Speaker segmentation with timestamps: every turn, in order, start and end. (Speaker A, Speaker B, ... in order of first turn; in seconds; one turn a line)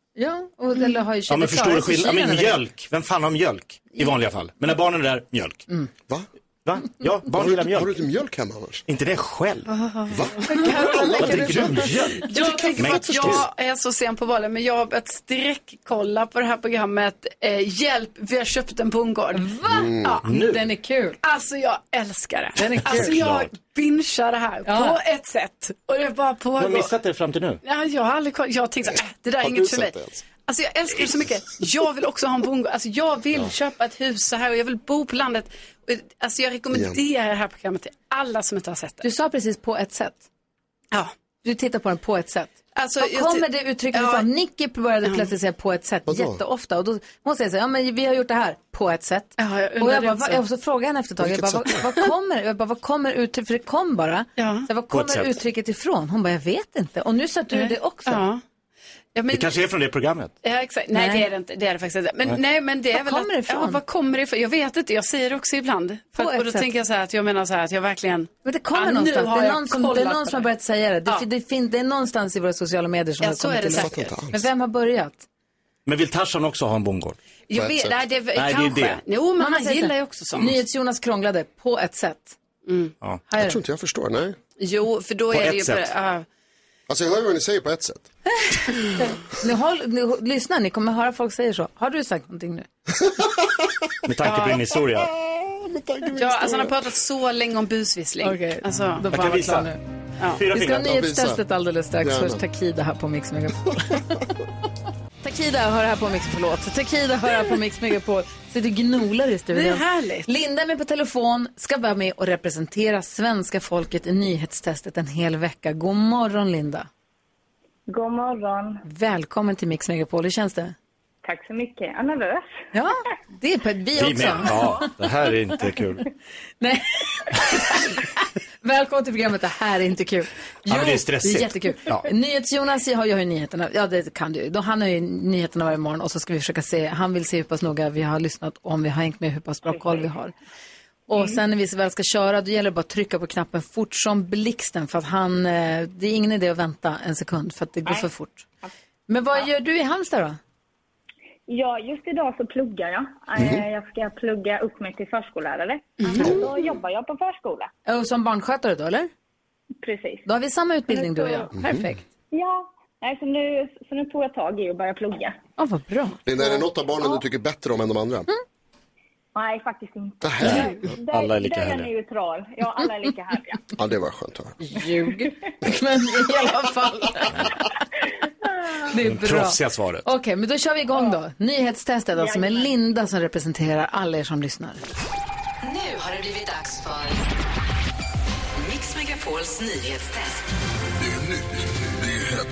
Speaker A: 0.2-2.6
Speaker B: 1.3-5.7
Speaker B: 6.7-8.0
Speaker C: 7.3-8.8
Speaker B: 8.9-9.7
Speaker D: 9.7-11.6
Speaker C: 10.1-11.9
Speaker A: 10.5-13.4
Speaker B: 11.1-13.5
Speaker D: 12.2-19.5
Speaker A: 19.3-21.2
Speaker C: 19.7-20.2
Speaker B: 20.3-20.7
Speaker D: 21.2-26.9
Speaker A: 22.6-23.2
Speaker B: 22.8-23.5
Speaker A: 24.6-25.0
Speaker B: 26.6-27.6
Speaker D: 27.6-39.1
Speaker C: 29.4-30.2
Speaker C: 36.7-37.0
Speaker A: 39.0-40.2
Speaker A: 41.4-58.3
Speaker D: 42.8-44.3
Speaker C: 46.1-46.4
Speaker D: 49.4-50.4
Speaker C: 51.2-51.9
Speaker D: 54.4-54.7
Speaker B: 54.9-55.3
Speaker D: 57.5-58.4
Speaker D: 59.1-59.5
Speaker B: 59.3-60.3
Speaker D: 60.4-70.5
Speaker A: 60.9-61.3
Speaker A: 62.9-63.8
Speaker A: 66.2-66.7
Speaker A: 68.5-75.2
Speaker D: 73.2-74.1
Speaker C: 73.8-74.5
Speaker B: 75.9-77.2
Speaker D: 77.5-80.5
Speaker C: 77.5-78.0
Speaker B: 78.4-79.0
Speaker A: 79.4-82.4
Speaker D: 82.7-82.9
Speaker A: 83.3-83.6
Speaker C: 83.4-84.4
Speaker D: 84.6-86.3
Speaker B: 85.3-85.9
Speaker C: 86.9-88.0
Speaker A: 88.4-92.7
Speaker C: 93.0-94.1
Speaker B: 94.0-95.1
Speaker D: 94.2-94.7
Speaker C: 95.0-96.8
Speaker D: 96.1-99.0
Speaker A: 98.2-99.8
Speaker B: 99.1-99.7
Speaker B: 100.3-100.9
Speaker A: 100.5-104.2
Speaker C: 100.7-101.4
Speaker C: 102.0-102.4
Speaker A: 105.2-116.9
Speaker D: 109.5-110.3
Speaker E: 117.9-118.8
Speaker A: 118.8-120.8
Speaker E: 121.2-122.5
Speaker A: 122.7-124.8
Speaker B: 124.0-126.1
Speaker A: 126.6-140.3
Speaker B: 130.7-132.1
Speaker E: 139.7-140.0
Speaker A: 141.1-148.4
Speaker A: 149.1-150.4
Speaker E: 151.5-157.7
Speaker C: 153.4-153.7
Speaker D: 156.0-156.4
Speaker A: 156.2-156.5
Speaker C: 156.2-156.5
Speaker A: 157.9-159.1
Speaker E: 159.8-160.3
Speaker A: 160.3-162.1
Speaker E: 160.9-161.5
Speaker C: 161.6-161.9
Speaker E: 162.3-165.4
Speaker A: 165.6-166.2
Speaker C: 166.3-168.3
Speaker E: 169.3-173.7
Speaker C: 170.2-170.8
Speaker B: 170.4-171.9
Speaker C: 173.8-174.6
Speaker A: 174.6-177.7
Speaker A: 178.8-184.8
Speaker B: 178.9-180.1
Speaker E: 182.2-182.7
Speaker F: 185.6-187.2
Speaker F: 188.6-190.5